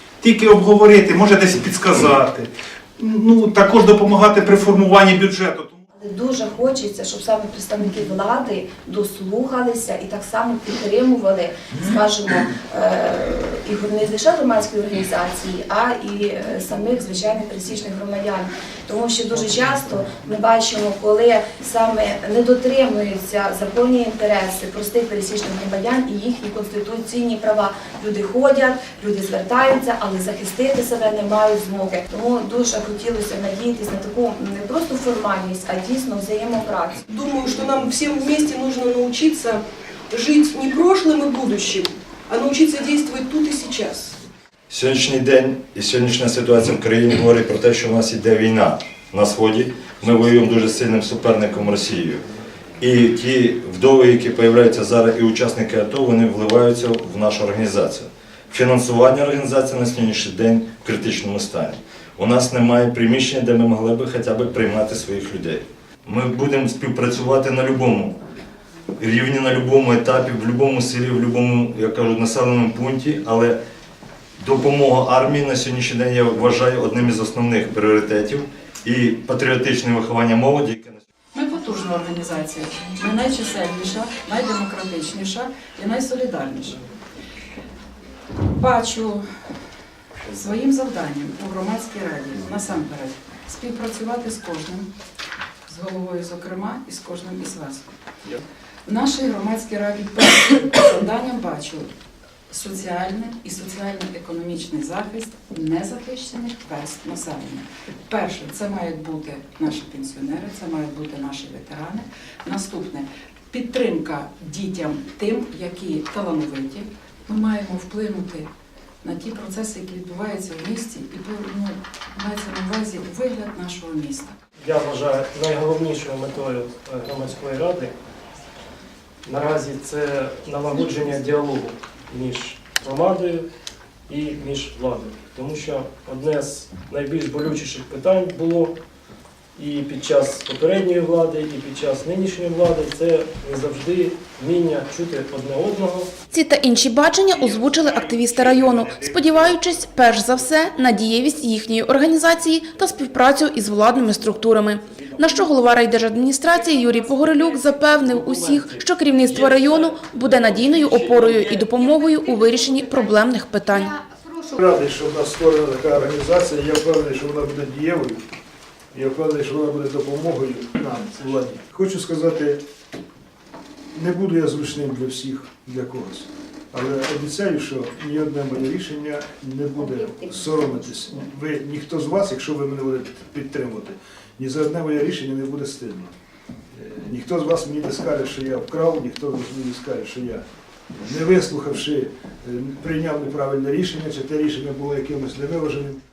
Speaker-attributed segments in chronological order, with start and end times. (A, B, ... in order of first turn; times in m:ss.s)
0:00.2-0:05.8 A
0:06.0-0:37.0 B
0:37.1-0:44.2 C
0:44.7-0:52.2 D
0:52.8-1:08.2 D
1:09.0-1:13.6 D
1:14.4-1:21.0 D
1:21.3-1:26.8 E
1:28.5-1:29.2 E
1:30.3-1:34.9 E
1:35.7-1:37.9 E
1:38.9-1:41.9 E
1:42.5-1:58.5 E
1:59.0-2:04.3 E
2:04.6-2:07.9 F
2:09.3-2:13.4 F
2:14.1-2:18.7 F
2:19.6-2:26.1 F
2:26.3-2:43.9 G
2:44.6-2:48.2 H
2:48.9-2:52.6 H
2:53.9-3:06.1 H
3:06.7-3:10.4 H
3:11.0-3:16.0 H